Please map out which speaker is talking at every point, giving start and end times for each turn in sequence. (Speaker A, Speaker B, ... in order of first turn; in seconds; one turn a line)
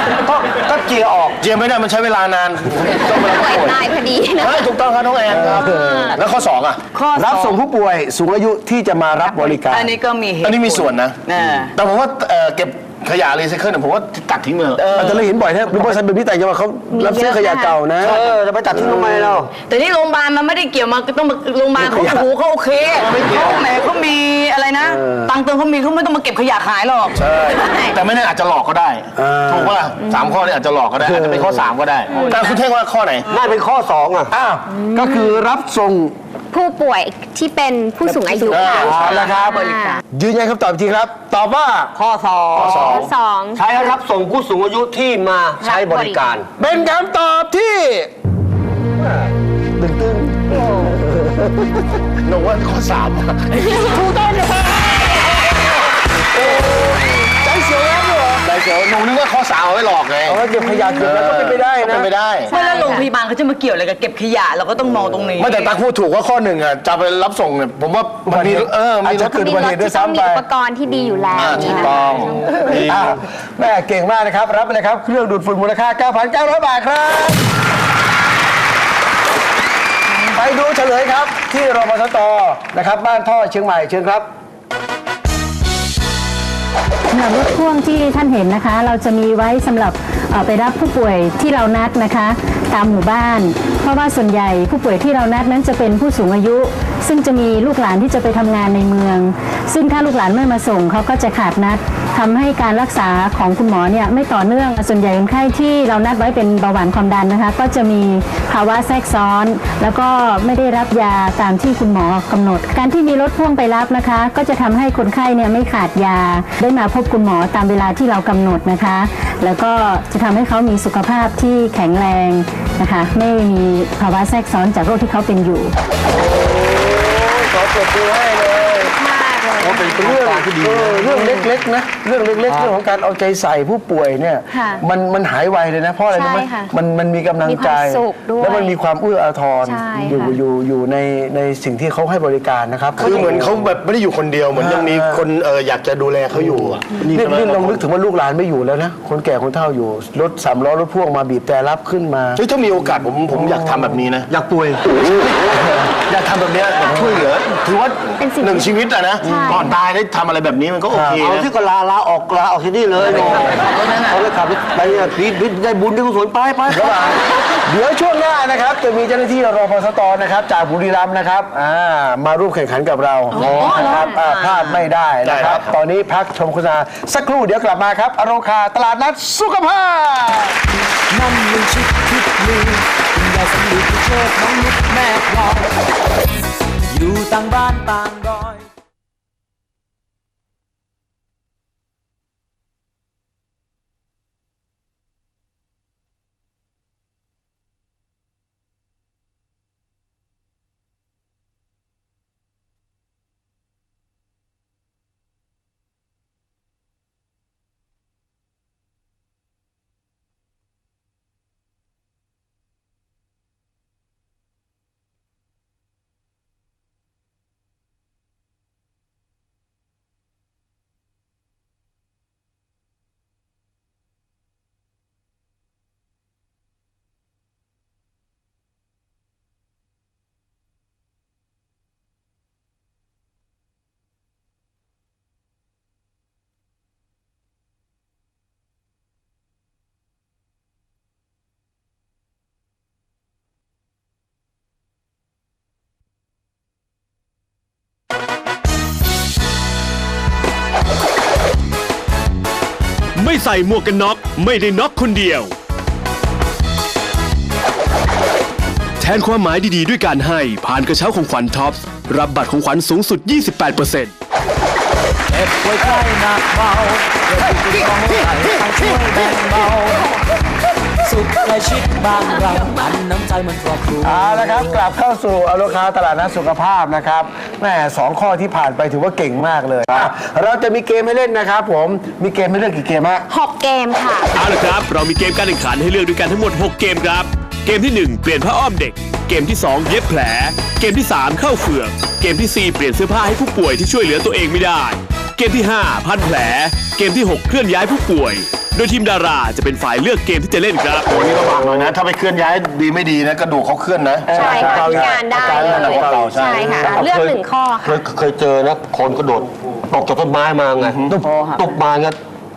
Speaker A: 0.2-1.4
Speaker B: 1.4-3.8
Speaker C: 3.1-4.7
Speaker B: 4.4-6.8
Speaker D: 5.3-6.1
Speaker C: 5.6-6.2
Speaker E: 6.9-7.6
Speaker D: 7.2-9.9
Speaker E: 9.3-11.7
Speaker B: 10.4-11.2
Speaker B: 11.8-14.9
Speaker E: 14.8-15.3
Speaker D: 14.9-18.2
Speaker C: 16.9-17.8
Speaker A: 18.0-19.5
Speaker E: 19.7-28.0
Speaker D: 21.8-22.2
Speaker B: 23.0-23.7
Speaker D: 24.8-25.3
Speaker B: 27.2-33.3
Speaker D: 29.2-29.8
Speaker C: 30.0-30.3
Speaker D: 31.0-31.6
Speaker E: 32.1-32.6
Speaker C: 32.1-32.4
Speaker A: 33.3-34.3
Speaker D: 34.3-36.1
Speaker C: 34.8-35.4
Speaker C: 36.5-40.0
Speaker D: 38.3-41.9
Speaker B: 38.5-38.9
Speaker A: 38.5-39.3
Speaker E: 38.9-40.0
Speaker A: 42.0-43.0
Speaker B: 42.5-43.1
Speaker C: 42.6-43.7
Speaker A: 43.5-46.5
Speaker C: 45.6-46.2
Speaker D: 46.6-48.1
Speaker A: 49.0-49.3
Speaker D: 49.8-52.0
Speaker C: 50.5-51.0
Speaker B: 52.3-53.6
Speaker C: 53.5-55.7
Speaker D: 53.7-54.8
Speaker D: 56.3-58.4
Speaker C: 56.4-56.9
Speaker C: 57.4-57.9
Speaker B: 58.4-60.4
Speaker D: 60.3-62.1
Speaker B: 61.0-62.5
Speaker C: 62.5-63.1
Speaker E: 62.5-65.7
Speaker B: 65.4-69.4
Speaker D: 68.3-70.5
Speaker C: 69.2-72.7
Speaker B: 71.3-73.2
Speaker D: 71.3-71.8
Speaker D: 72.7-77.4
Speaker D: 80.3-84.3
Speaker F: 87.1-125.7
Speaker D: 126.1-128.9
Speaker C: 128.9-130.2
Speaker A: 129.6-131.5
Speaker D: 130.0-143.6
Speaker A: 132.5-132.8
Speaker C: 134.5-134.8
Speaker C: 136.1-136.7
Speaker C: 137.4-138.8
Speaker C: 139.7-140.4
Speaker B: 143.0-147.6
Speaker A: 143.1-143.6
Speaker D: 144.6-145.2
Speaker D: 146.4-152.4
Speaker A: 147.0-147.8
Speaker B: 152.4-154.3
Speaker A: 154.3-154.8
Speaker B: 156.1-161.5
Speaker D: 156.9-157.2
Speaker C: 158.2-159.8
Speaker D: 159.2-159.7
Speaker D: 160.9-161.2
Speaker A: 161.2-166.9
Speaker E: 163.0-164.2
Speaker D: 166.7-180.5
Speaker B: 166.8-167.2
Speaker E: 173.3-174.9
Speaker A: 173.4-173.9
Speaker B: 175.2-175.7
Speaker G: 181.1-185.7
Speaker G: 186.9-188.7
Speaker H: 253.2-255.5
Speaker H: 259.0-264.1
Speaker G: 265.3-270.1
Speaker G: 271.0-274.8
Speaker D: 274.0-283.2
Speaker C: 283.3-284.3
Speaker H: 284.4-301.2
Speaker B: 301.1-306.8
Speaker D: 304.3-306.9
Speaker C: 304.3-308.0
Speaker A: 304.4-304.7
Speaker A: 306.6-312.2
Speaker B: 310.8-311.1
Speaker E: 311.2-311.6